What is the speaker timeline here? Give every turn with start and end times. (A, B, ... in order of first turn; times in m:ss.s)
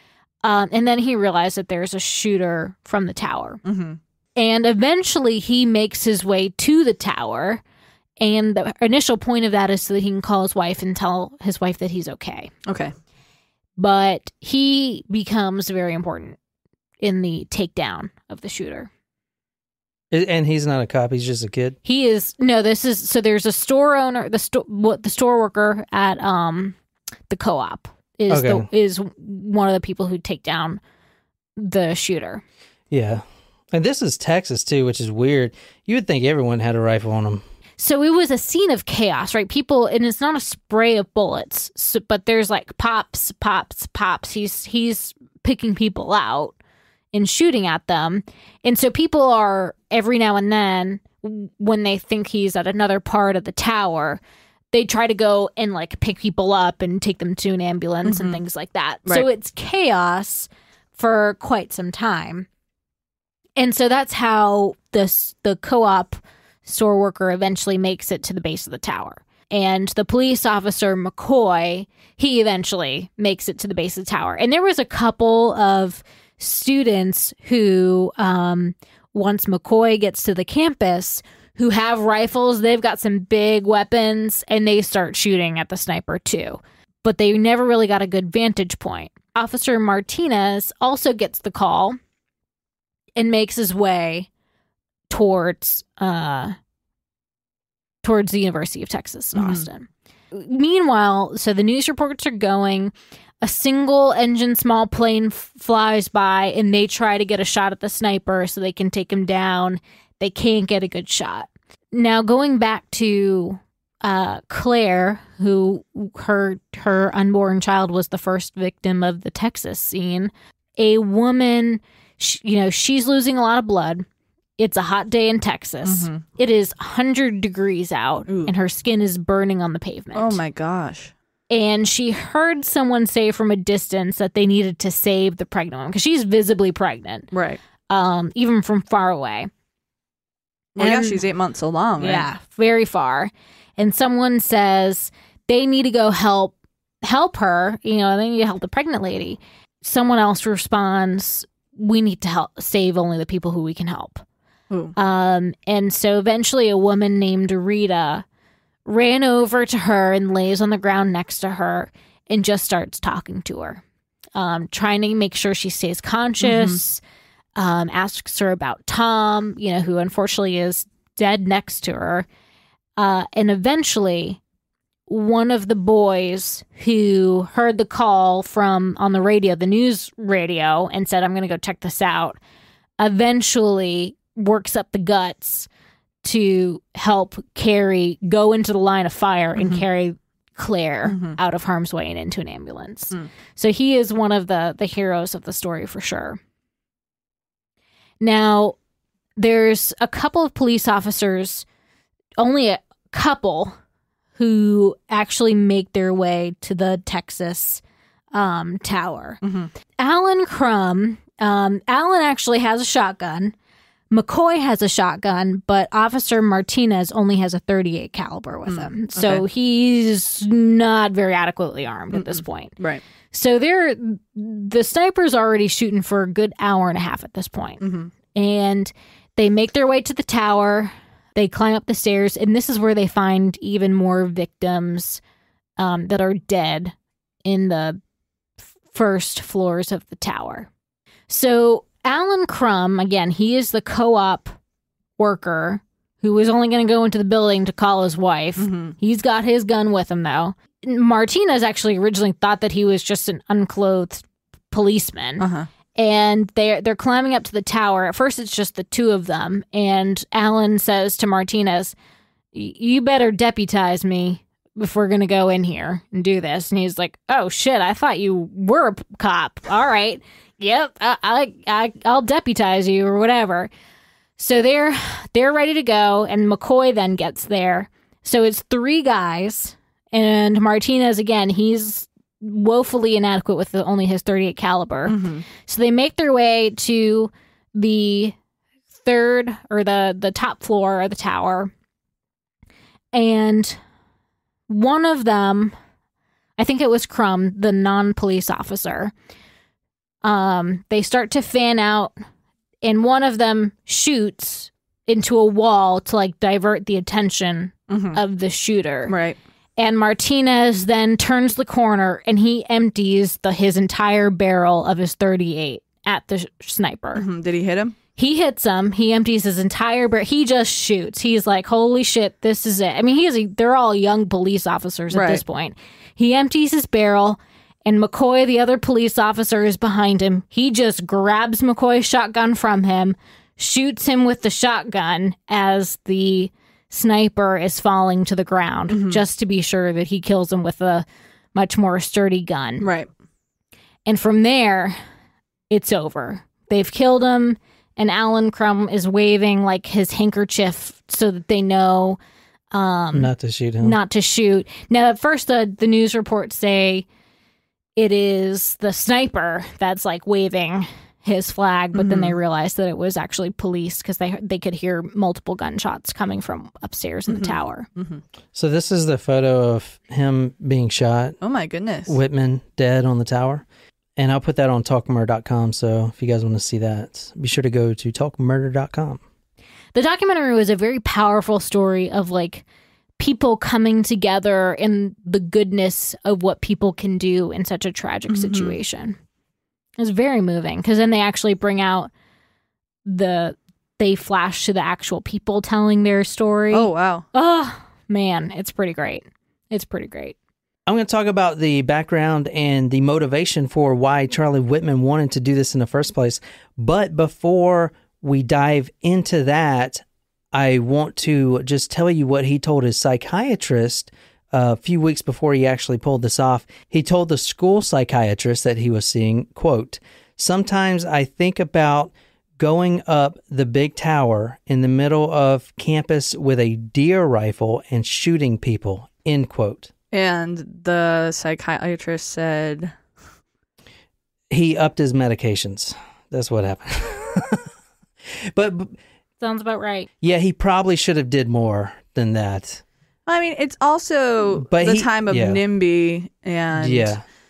0:00.4-0:03.6 A
0:03.6-0:04.0 B
0:04.4-0:07.6 A
0:08.2-0:12.5 A
0:12.7-0:12.9 B
0:13.8-0:16.4 A
0:17.0-0:18.9 A
0:20.1-0:21.8 C
0:21.8-0:26.8 A
0:27.3-0:30.8 A
0:28.3-0:28.7 C
0:31.6-0:32.4 A
0:32.9-0:37.4 C
0:37.8-0:46.6 A
0:47.1-0:54.2 A
0:54.7-1:02.4 A
0:58.0-0:58.4 B
1:03.6-1:32.0 A
1:33.2-1:34.3 A
1:35.1-1:36.6 A
1:38.0-2:04.1 A
1:39.3-1:39.7 B
2:04.6-2:10.4 A
2:05.8-2:06.2 B
2:10.1-2:11.1 B
2:11.5-2:17.3 A
2:17.3-2:17.6 B
2:17.9-2:19.5 A
2:20.8-2:22.3 B
2:20.8-2:21.2 A
2:22.0-2:34.2 A
2:34.7-2:34.9 B
2:35.0-2:38.2 A
2:38.9-2:43.8 A
2:44.4-2:47.0 A
2:46.4-2:46.8 B
2:47.6-2:52.3 A
2:53.0-2:54.4 A
2:55.1-3:02.4 A
3:03.0-3:05.7 A
3:06.2-3:16.4 A
3:09.6-3:09.8 B
3:11.1-3:11.4 B
3:18.2-3:18.8 A
3:19.4-3:21.6 A
3:22.4-3:23.8 A
3:24.4-3:27.8 A
3:28.3-3:29.4 A
3:29.4-3:29.7 B
3:30.0-3:33.5 A
3:34.1-3:42.7 A
3:38.7-3:39.4 B
3:42.1-3:43.0 B
3:43.3-3:47.8 A
3:47.8-3:48.1 B
3:48.3-3:55.2 A
3:55.8-3:56.9 A
3:57.4-3:58.0 A
3:58.9-4:00.7 A
4:01.3-4:04.6 A
4:05.2-4:21.9 A
4:08.6-4:08.9 B
4:15.4-4:15.7 B
4:22.5-4:33.7 A
4:34.4-4:48.4 A
4:45.1-4:45.4 B
4:49.0-4:51.7 A
4:53.1-4:53.8 A
4:54.7-4:55.7 A
4:56.6-4:59.1 A
5:00.2-5:02.1 A
5:02.8-5:09.1 A
5:07.9-5:08.2 B
5:09.1-5:09.4 B
5:09.8-5:17.2 A
5:17.1-5:17.9 B
5:18.2-5:42.9 A
5:25.1-5:25.4 B
5:38.9-5:39.2 B
5:42.8-5:43.1 B
5:44.1-5:45.0 A
5:45.7-5:52.2 A
5:52.7-5:57.1 A
5:53.1-5:54.0 C
5:58.0-6:07.9 A
6:01.9-6:02.4 B
6:07.3-6:08.2 B
6:08.5-6:11.4 C
6:11.4-6:12.2 B
6:12.1-6:13.6 C
6:14.2-6:19.2 C
6:19.9-6:22.6 A
6:23.2-6:29.2 A
6:28.3-6:28.8 B
6:30.0-6:32.1 A
6:33.1-6:40.4 A
6:36.7-6:37.2 B
6:40.9-7:09.9 C
7:10.1-7:12.9 B
7:14.5-7:17.7 C
7:18.4-7:19.0 C
7:19.4-7:20.1 A
7:20.2-7:22.8 C
7:23.3-7:27.2 B
7:24.7-7:25.6 C
7:26.8-7:27.2 C